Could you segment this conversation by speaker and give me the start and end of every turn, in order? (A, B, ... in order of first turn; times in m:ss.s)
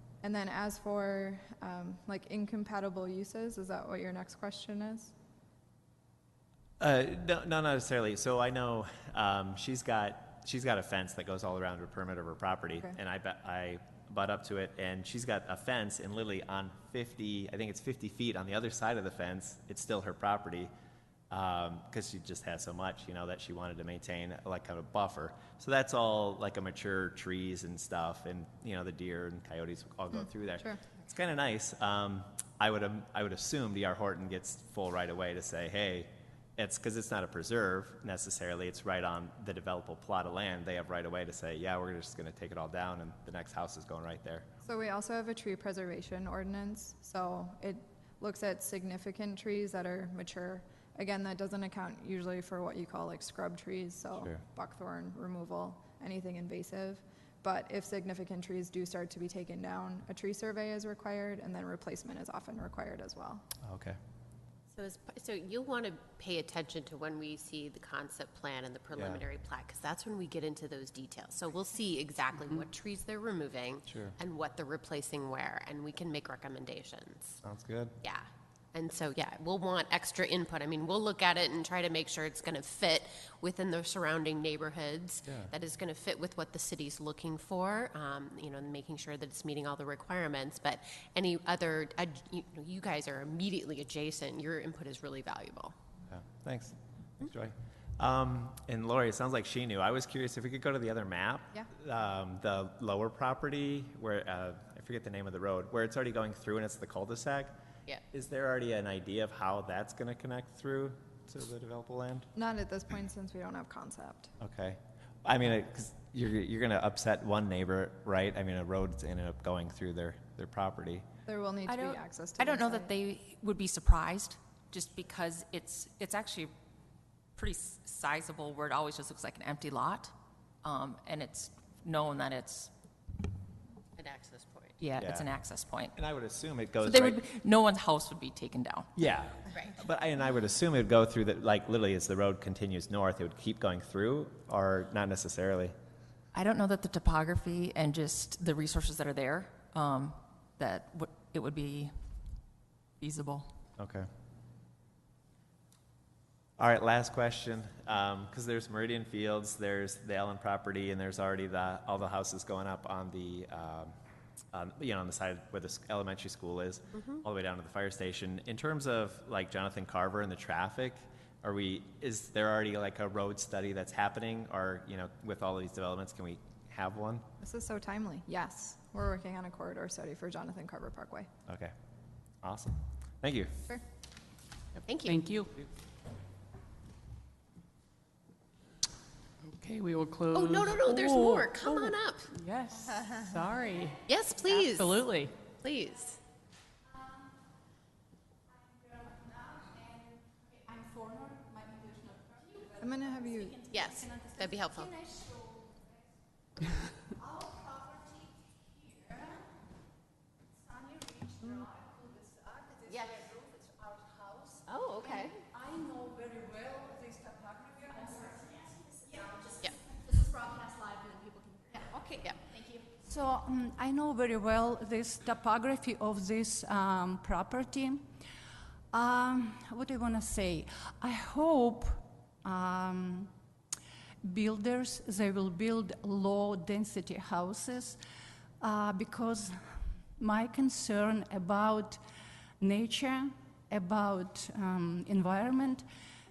0:00.2-0:05.1 A
0:06.8-0:20.7 B
0:21.3-0:44.5 B
0:30.1-0:30.8 A
0:44.6-1:03.4 A
1:03.6-1:04.0 B
1:04.7-1:17.4 C
1:08.9-1:09.2 B
1:13.9-1:14.1 B
1:17.4-1:17.9 B
1:18.0-1:35.7 C
1:36.1-1:47.5 B
1:48.1-1:52.3 B
1:52.3-1:54.3 A
1:54.4-2:01.0 B
2:01.2-2:02.9 A
2:01.7-2:06.5 D
2:07.4-2:12.7 D
2:14.0-2:14.8 C
2:14.8-2:16.0 D
2:15.0-2:15.3 B
2:15.9-2:17.2 B
2:16.8-2:18.9 D
2:19.0-2:25.7 B
2:26.3-2:31.9 D
2:33.0-2:33.5 D
2:33.8-2:34.1 B
2:36.6-2:43.9 B
2:44.5-2:57.2 B
2:57.4-3:01.3 A
3:01.5-3:01.7 B
3:02.4-3:03.5 B
3:04.9-3:05.3 C
3:05.0-3:05.6 E
3:09.5-3:15.3 E
3:10.3-3:12.3 C
3:14.0-3:16.2 C
3:22.8-3:23.7 A
3:23.7-3:25.1 C
3:31.4-3:31.7 C
3:32.8-3:33.3 C
3:34.6-3:35.4 C
3:35.8-3:37.8 F
3:41.7-3:42.4 C
3:43.0-3:48.0 F
3:48.9-3:53.3 F
3:54.2-3:58.0 F
3:58.6-4:02.0 F
4:02.6-4:05.8 F